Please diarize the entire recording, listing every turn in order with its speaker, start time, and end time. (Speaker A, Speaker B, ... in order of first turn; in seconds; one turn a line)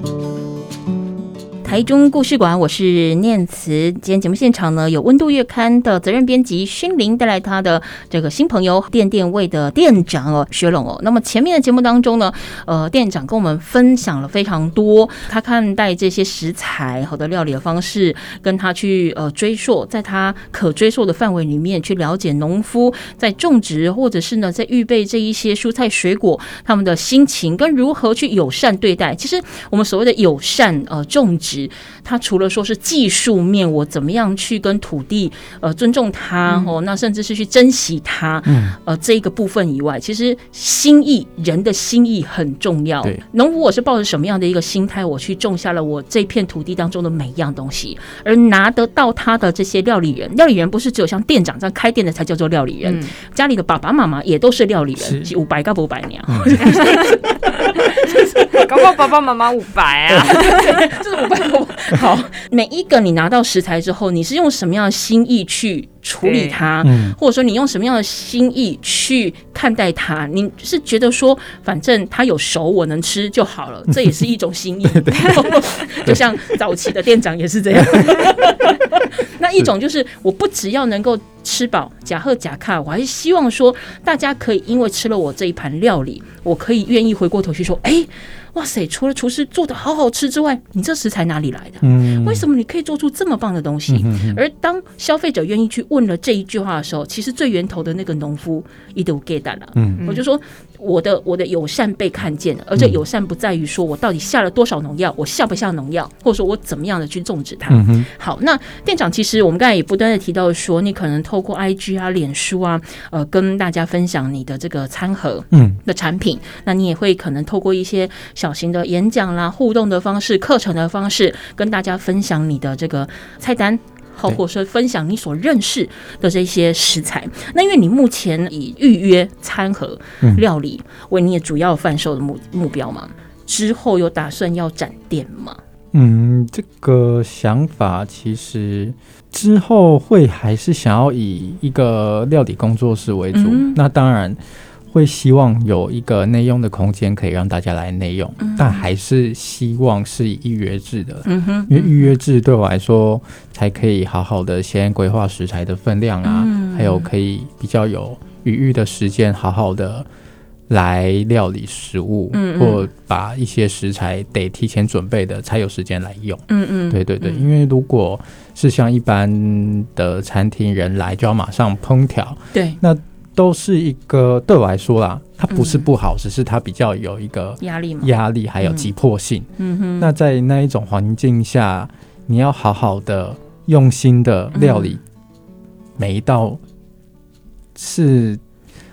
Speaker A: 1.6-58.7
Speaker B: 36.5-36.7
Speaker C: 38.5-38.8
Speaker B: 52.8-53.1
Speaker C: 55.0-55.3
Speaker C: 56.3-56.7
Speaker B: 56.6-57.2
Speaker B: 58.5-61.0
Speaker A: 60.2-135.6
Speaker B: 66.2-66.6
Speaker C: 66.8-67.2
Speaker C: 74.9-76.3
Speaker C: 77.8-78.3
Speaker C: 91.8-92.5
Speaker C: 93.9-94.4
Speaker C: 99.7-100.0
Speaker C: 107.7-108.1
Speaker C: 115.5-115.8
Speaker C: 135.9-144.4
Speaker A: 143.3-143.8
Speaker C: 144.9-160.1
Speaker A: 148.4-148.8
Speaker A: 151.2-152.1
Speaker A: 156.2-157.1
Speaker C: 160.7-185.0
Speaker A: 162.3-162.9
Speaker A: 166.5-167.4
Speaker A: 172.5-172.8
Speaker A: 175.5-175.8
Speaker A: 177.6-178.1
Speaker A: 178.6-178.9
Speaker A: 179.6-180.1
Speaker A: 184.5-185.0
Speaker C: 186.0-186.6
Speaker C: 187.7-188.4